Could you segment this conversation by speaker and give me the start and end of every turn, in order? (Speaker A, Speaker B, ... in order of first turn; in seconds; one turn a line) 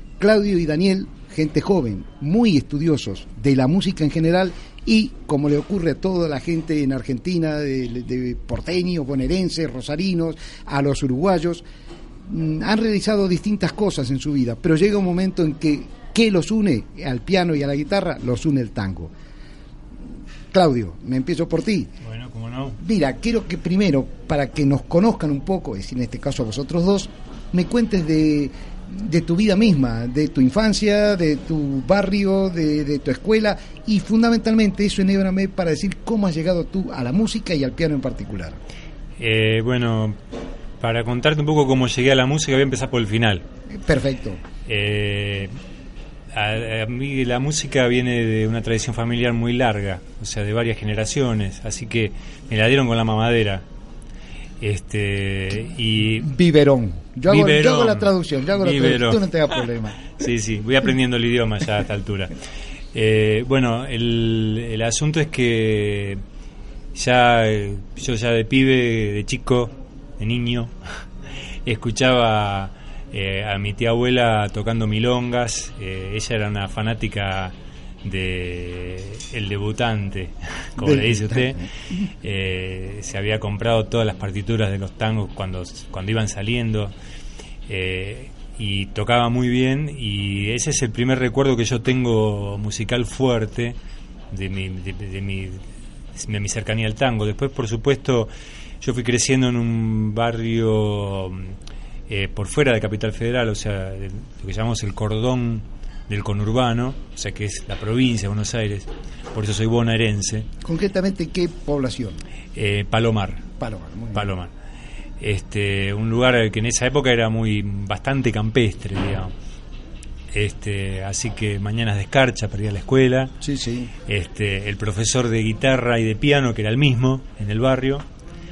Speaker A: 0.2-11.7
Speaker A: 12.2-19.1
Speaker A: 20.5-21.9
Speaker B: 22.0-22.8
Speaker A: 22.8-38.6
Speaker B: 39.2-40.1
Speaker B: 40.8-43.4
Speaker A: 43.7-44.4
Speaker B: 44.6-45.5
Speaker B: 46.3-53.6
Speaker B: 54.6-56.3
Speaker A: 56.1-60.0
Speaker B: 57.3-59.3
Speaker B: 60.2-62.3
Speaker B: 62.9-66.2
Speaker B: 66.9-70.7
Speaker B: 71.6-81.6
Speaker A: 80.8-82.1
Speaker B: 82.2-86.9
Speaker B: 87.7-93.8
Speaker B: 94.3-95.6
Speaker B: 96.1-101.5
Speaker B: 102.1-110.5
Speaker A: 110.6-112.2
Speaker B: 112.5-113.5
Speaker A: 113.6-114.3
Speaker B: 114.1-114.5
Speaker B: 115.2-119.3
Speaker B: 120.3-123.3
Speaker A: 123.4-123.9
Speaker B: 124.1-128.0